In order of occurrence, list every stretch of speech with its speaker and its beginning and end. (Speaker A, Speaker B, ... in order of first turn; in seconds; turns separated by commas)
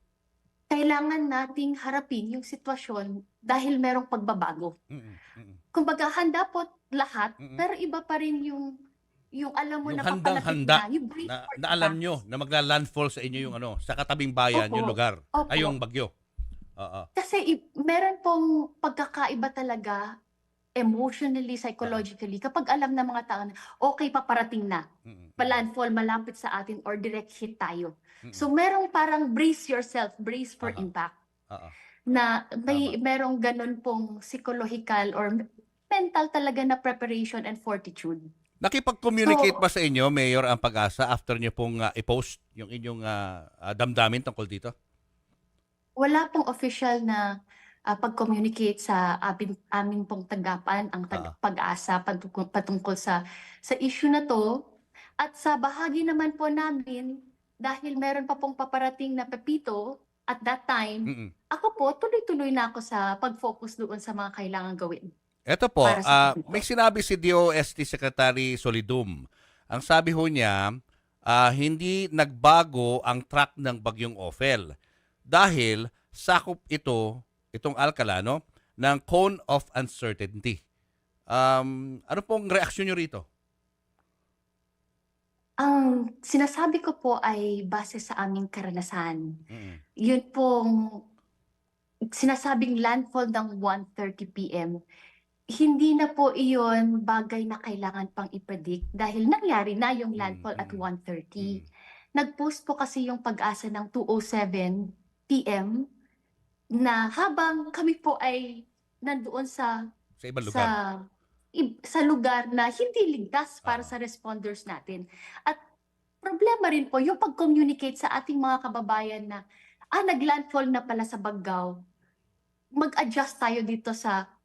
Speaker A: 0.7-4.7, Speaker B: 4.9-5.6, Speaker A: 5.7-8.7, Speaker A: 9.4-12.0, Speaker B: 9.8-16.1, Speaker A: 14.5-15.7, Speaker B: 16.8-17.1, Speaker A: 17.1-20.0, Speaker A: 20.8-24.8, Speaker B: 25.1-25.6, Speaker A: 25.4-31.1, Speaker A: 32.1-35.3, Speaker B: 32.7-32.9, Speaker A: 35.9-38.2, Speaker B: 38.6-44.7, Speaker A: 39.2-39.5, Speaker A: 46.0-47.2, Speaker A: 47.9-54.4, Speaker A: 55.2-57.1, Speaker A: 57.6-59.8, Speaker A: 60.3-65.1, Speaker B: 65.5-70.6, Speaker A: 65.8-66.6, Speaker B: 71.3-74.7, Speaker B: 75.3-77.0, Speaker B: 77.5-80.6, Speaker B: 81.3-83.2, Speaker A: 85.6-89.2, Speaker B: 89.5-89.8, Speaker A: 90.0-90.7, Speaker A: 92.2-94.8, Speaker A: 95.6-101.6, Speaker B: 100.2-100.8, Speaker A: 102.2-104.8, Speaker A: 105.3-105.7, Speaker A: 106.8-108.5, Speaker A: 109.0-109.7, Speaker B: 110.2-110.7, Speaker A: 110.4-110.9, Speaker A: 111.6-115.6, Speaker B: 113.6-113.9, Speaker A: 116.2-119.4, Speaker A: 120.0-121.7, Speaker A: 122.8-124.2